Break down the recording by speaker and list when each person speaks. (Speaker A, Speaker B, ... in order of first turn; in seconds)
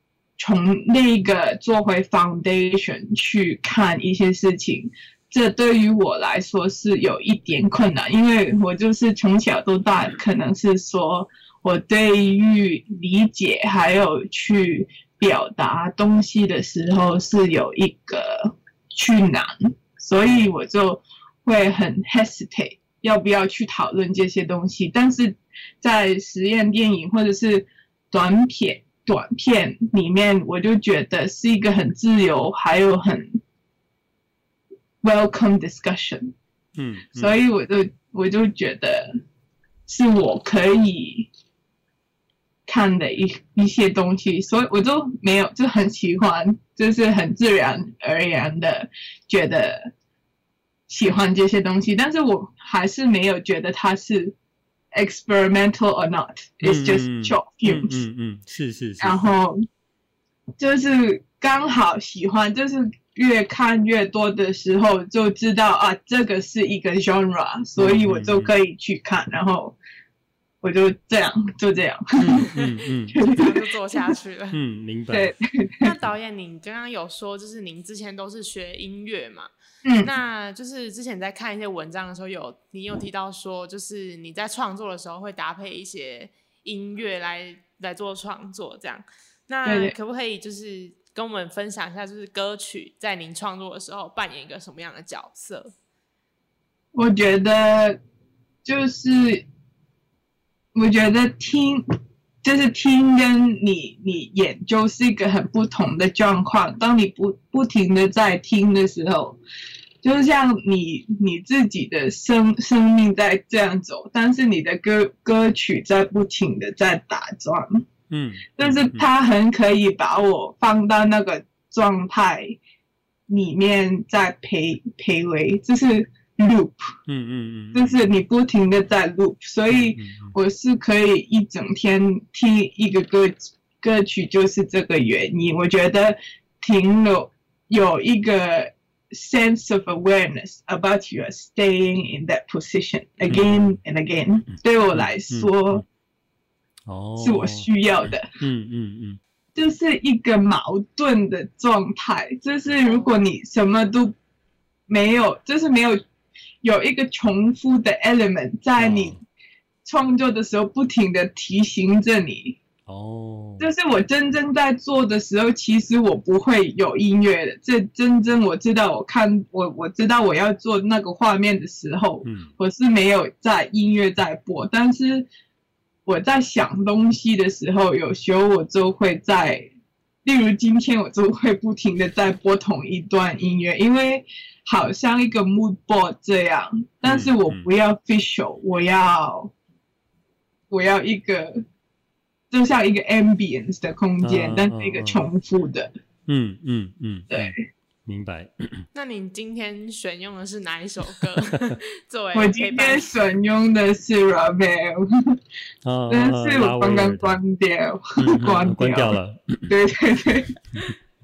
Speaker A: 0.4-33.4, 35.0-36.3, 37.1-39.1, 39.9-41.3, 42.7-49.9, 50.9-54.4, 54.9-58.0, 59.0-59.6, 60.6-69.8, 70.6-72.5, 73.1-74.2, 75.1-75.9, 79.8-80.1, 89.6-89.9, 96.9-98.0, 98.6-99.4, 100.7-101.8, 102.4-109.4, 110.0-117.8, 118.5-122.6, 123.3-126.9, 127.7-145.8, 147.2-148.3, 149.5-154.1, 154.9-156.0, 156.6-159.2, 159.8-162.6, 163.6-175.3, 176.1-179.7, 180.2-189.5, 190.7-191.6, 192.5-195.9, 197.3-197.6, 202.3-205.4, 206.1-210.5
Speaker B: 20.2-20.5, 36.8-37.4, 56.6-59.4, 67.8-68.5, 72.2-73.2, 74.5-75.3, 118.1-119.1, 127.1-128.1, 129.7-130.3, 143.3-143.8, 144.9-145.8, 146.9-147.7, 148.4-149.2, 158.8-159.2, 162.8-163.7, 172.2-172.5, 187.0-187.7, 194.2-195.2, 196.3-198.9, 205.8-207.4, 208.2-209.7
Speaker C: 72.5-74.6, 75.8-79.5, 80.0-95.7, 198.9-203.1